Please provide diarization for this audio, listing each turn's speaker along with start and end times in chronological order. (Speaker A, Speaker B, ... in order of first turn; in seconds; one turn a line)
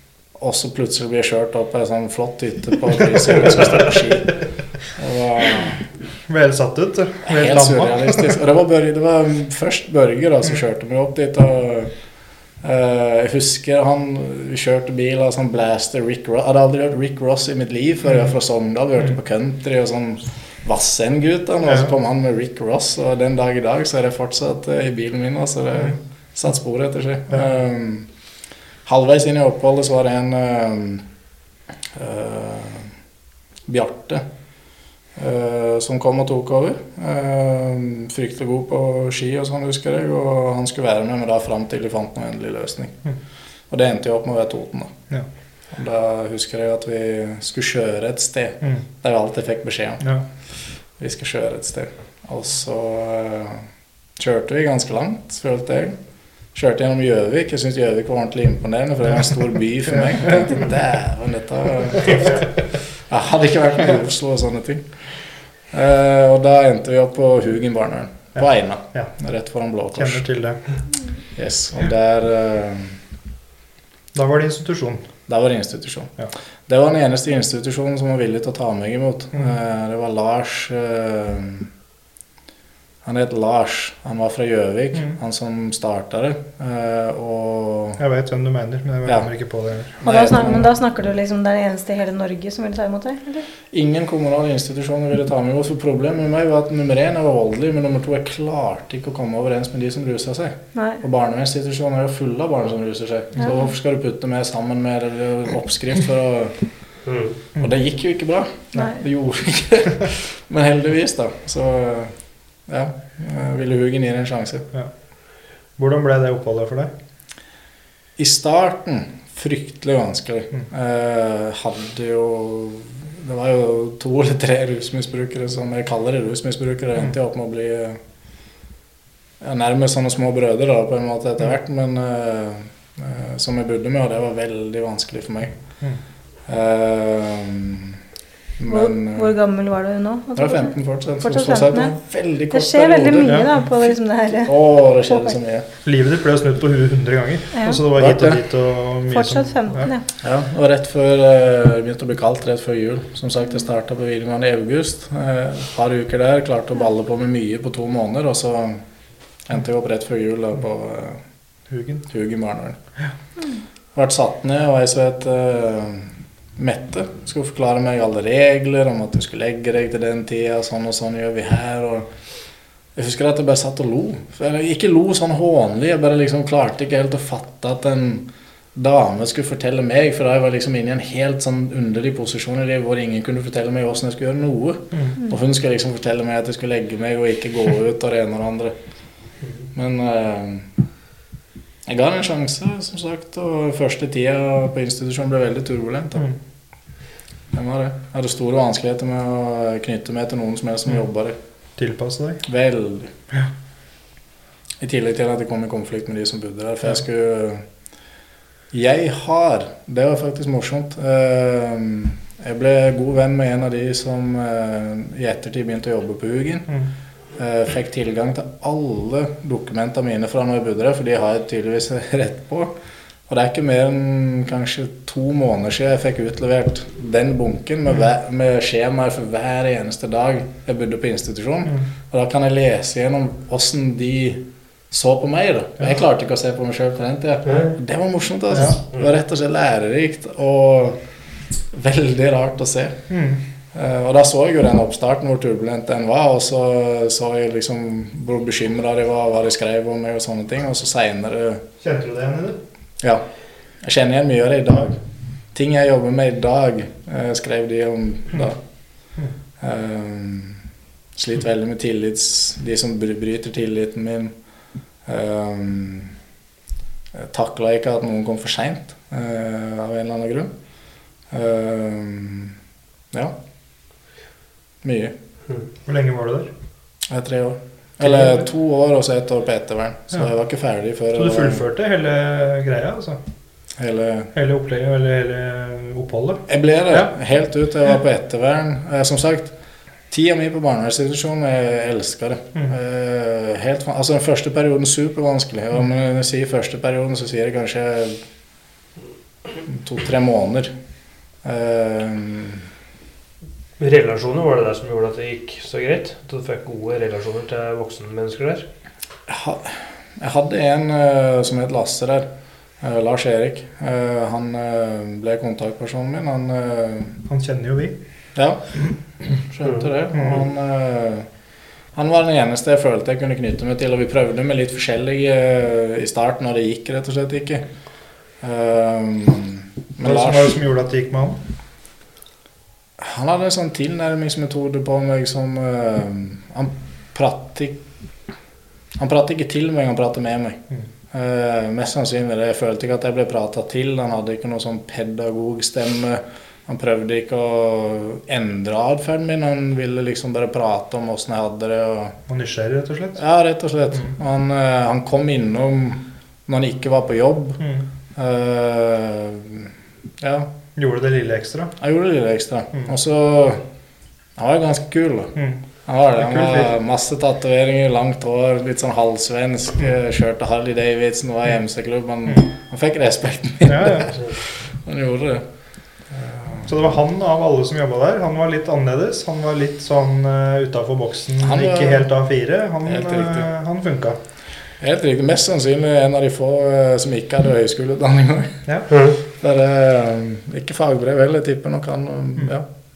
Speaker A: 0.4-5.9
Speaker B: 6.3-8.3
Speaker A: 7.2-12.0
Speaker A: 12.6-28.1
Speaker A: 28.9-31.0
Speaker A: 31.9-32.9
Speaker A: 33.7-34.2
Speaker A: 35.1-43.0
Speaker A: 43.7-44.9
Speaker A: 45.7-50.1
Speaker A: 51.0-56.0
Speaker A: 56.5-62.4
Speaker A: 63.1-64.9
Speaker A: 65.7-70.3
Speaker B: 68.4-69.1
Speaker B: 70.0-70.6
Speaker A: 71.4-73.0
Speaker B: 74.1-75.0
Speaker A: 75.3-76.1
Speaker A: 76.7-81.7
Speaker A: 83.0-88.0
Speaker B: 88.0-90.0
Speaker A: 90.0-90.7
Speaker C: 90.0-93.5
Speaker A: 93.7-106.6
Speaker C: 100.7-101.0
Speaker D: 107.0-107.4
Speaker A: 107.6-114.7
Speaker B: 115.8-116.9
Speaker A: 118.2-128.0
Speaker A: 129.4-135.6
Speaker A: 136.5-138.0
Speaker A: 138.6-139.3
Speaker C: 138.7-141.9
Speaker A: 140.4-143.5
Speaker C: 142.5-145.4
Speaker B: 143.2-143.5
Speaker A: 144.4-145.7
Speaker B: 145.8-149.9
Speaker C: 147.5-147.9
Speaker A: 147.9-148.4
Speaker C: 149.1-150.1
Speaker A: 150.2-158.8
Speaker A: 159.4-161.2
Speaker B: 161.7-162.0
Speaker A: 162.1-162.8
Speaker A: 163.9-172.1
Speaker A: 172.9-188.7
Speaker A: 189.7-190.7
Speaker A: 191.9-196.3
Speaker A: 197.5-201.4
Speaker B: 201.8-202.4
Speaker A: 202.4-203.1
Speaker A: 204.8-207.6
Speaker A: 208.7-216.8
Speaker A: 217.4-222.7
Speaker A: 223.3-241.0
Speaker A: 241.7-243.0
Speaker B: 243.1-243.4
Speaker A: 243.7-251.6
Speaker B: 251.8-252.6
Speaker A: 253.8-255.0
Speaker A: 255.5-258.6
Speaker A: 259.6-260.6
Speaker A: 261.1-264.3
Speaker A: 265.1-266.1
Speaker A: 267.1-270.5
Speaker A: 271.3-272.5
Speaker A: 274.8-275.1
Speaker B: 275.9-276.5
Speaker A: 277.1-281.6
Speaker B: 278.0-278.4
Speaker B: 281.1-283.2
Speaker A: 283.8-284.3
Speaker B: 284.3-287.1
Speaker A: 286.5-289.5
Speaker A: 290.1-298.2
Speaker A: 299.7-300.7
Speaker A: 301.4-302.6
Speaker D: 303.8-308.7
Speaker A: 309.3-312.3
Speaker A: 312.8-317.2
Speaker B: 317.2-317.9
Speaker A: 318.4-321.3
Speaker B: 320.1-320.4
Speaker A: 321.9-327.6
Speaker A: 328.4-330.5
Speaker B: 330.0-331.4
Speaker A: 333.0-337.8
Speaker A: 338.9-340.6
Speaker A: 341.1-352.1
Speaker B: 352.3-353.2
Speaker A: 353.2-357.6
Speaker B: 357.6-357.9
Speaker A: 358.1-360.5
Speaker B: 360.8-361.8
Speaker A: 361.8-363.6
Speaker A: 364.4-365.4
Speaker B: 365.4-365.6
Speaker A: 365.9-375.4
Speaker B: 366.2-366.7
Speaker B: 373.6-374.1
Speaker A: 376.1-376.7
Speaker B: 376.6-384.2
Speaker A: 381.4-382.1
Speaker A: 382.9-383.5
Speaker A: 384.8-392.6
Speaker D: 388.9-389.2